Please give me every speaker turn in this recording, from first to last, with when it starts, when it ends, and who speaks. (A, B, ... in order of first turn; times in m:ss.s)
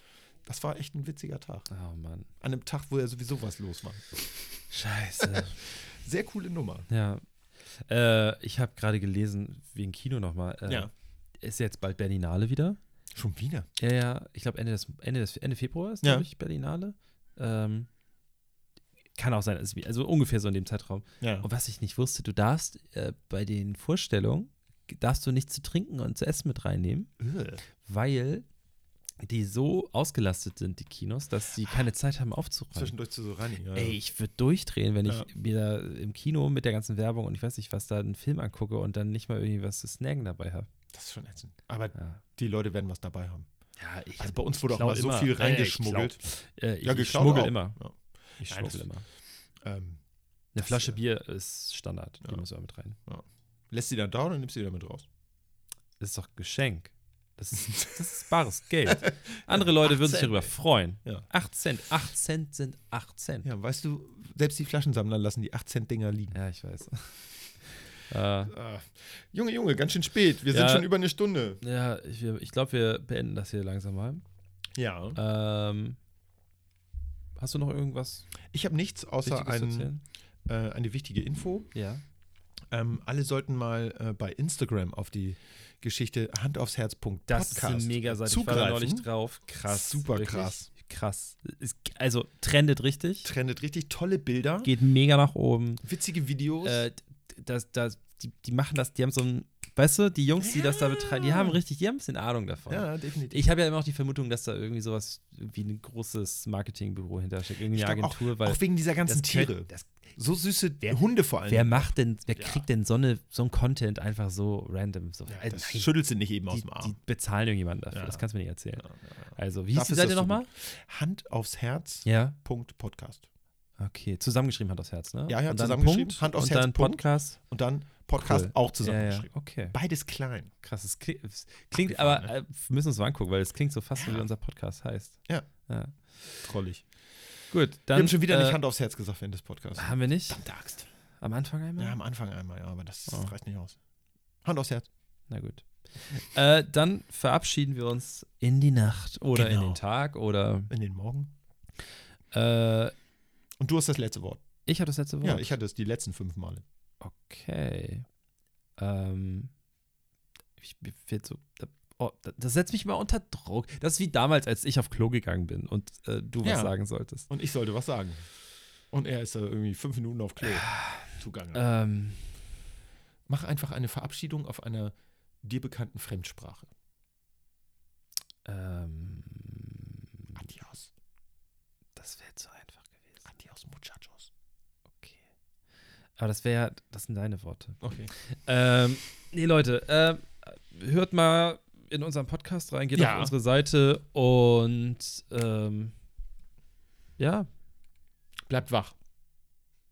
0:00.4-0:01.7 A
0:01.7-0:02.3 B
0:02.4-0:04.6 A
0:04.7-0:05.6 B
0:05.2-0:06.9 A
0:06.9-0:12.8 B
0:10.6-0:10.9 A
0:13.1-0:13.7 A
0:13.8-0:17.9 B
0:16.0-0:16.3 A
0:19.2-0:27.1 B
0:21.2-0:21.5 A
0:27.2-0:27.6 A
0:27.8-0:28.4 B
0:29.2-0:32.9 B
0:32.7-0:34.0 A
0:33.7-0:40.7 B
0:40.9-0:43.5 A
0:43.8-0:47.8 B
0:44.2-0:46.2 A
0:46.8-0:48.8 A
0:48.4-0:49.0 B
0:49.6-0:50.0 A
0:50.5-0:53.0 B
0:50.6-0:51.0 A
0:53.0-0:55.0 A
0:56.0-1:03.5 B
0:59.0-1:00.5 A
1:03.4-1:06.4 A
1:06.3-1:07.3 B
1:08.1-1:08.5 B
1:08.4-1:11.6 A
1:10.5-1:10.9 B
1:11.6-1:14.2 B
1:14.8-1:15.2 A
1:15.1-1:16.0 B
1:17.4-1:18.3 B
1:18.5-1:19.9 A
1:19.2-1:20.0 B
1:20.4-1:21.7 A
1:21.7-1:22.0 B
1:22.7-1:29.1 A
1:27.3-1:33.3 B
1:29.6-1:30.7 A
1:33.2-1:34.7 A
1:34.6-1:35.8 B
1:35.8-1:36.8 A
1:36.6-1:50.1 B
1:40.4-1:41.6 A
1:42.7-1:43.4 A
1:47.7-1:52.6 A
1:50.8-1:55.9 B
1:55.3-1:57.0 A
1:56.5-2:00.5 B
1:57.9-1:58.2 A
1:58.8-2:03.2 A
2:02.0-2:02.4 B
2:03.8-2:07.4 B
2:05.3-2:10.5 A
2:08.1-2:09.8 B
2:10.6-2:16.3 B
2:11.8-2:12.3 A
2:14.0-2:14.3 A
2:16.4-2:16.9 A
2:17.5-2:18.6 B
2:17.9-2:20.9 A
2:19.8-2:20.4 B
2:21.2-2:22.0 B
2:21.8-2:23.8 A
2:23.1-2:23.3 B
2:24.4-2:24.9 A
2:25.3-2:30.7 B
2:29.3-2:29.8 A
2:30.7-2:31.3 A
2:32.3-2:32.9 B
2:33.6-2:34.4 A
2:34.6-2:35.5 B
2:35.2-2:36.6 A
2:37.0-2:38.0 B
2:38.8-2:39.5 B
2:40.6-2:47.3 B
2:46.4-2:48.3 A
2:48.9-2:51.6 A
2:50.4-2:52.3 B
2:53.3-2:56.7 A
2:58.4-3:00.4 B
3:00.3-3:00.9 A
3:01.9-3:03.2 B
3:03.2-3:04.3 A
3:04.9-3:05.2 B
3:06.2-3:15.9 B
3:07.8-3:08.1 A
3:12.9-3:13.3 A
3:17.2-3:17.5 B
3:18.5-3:18.9 A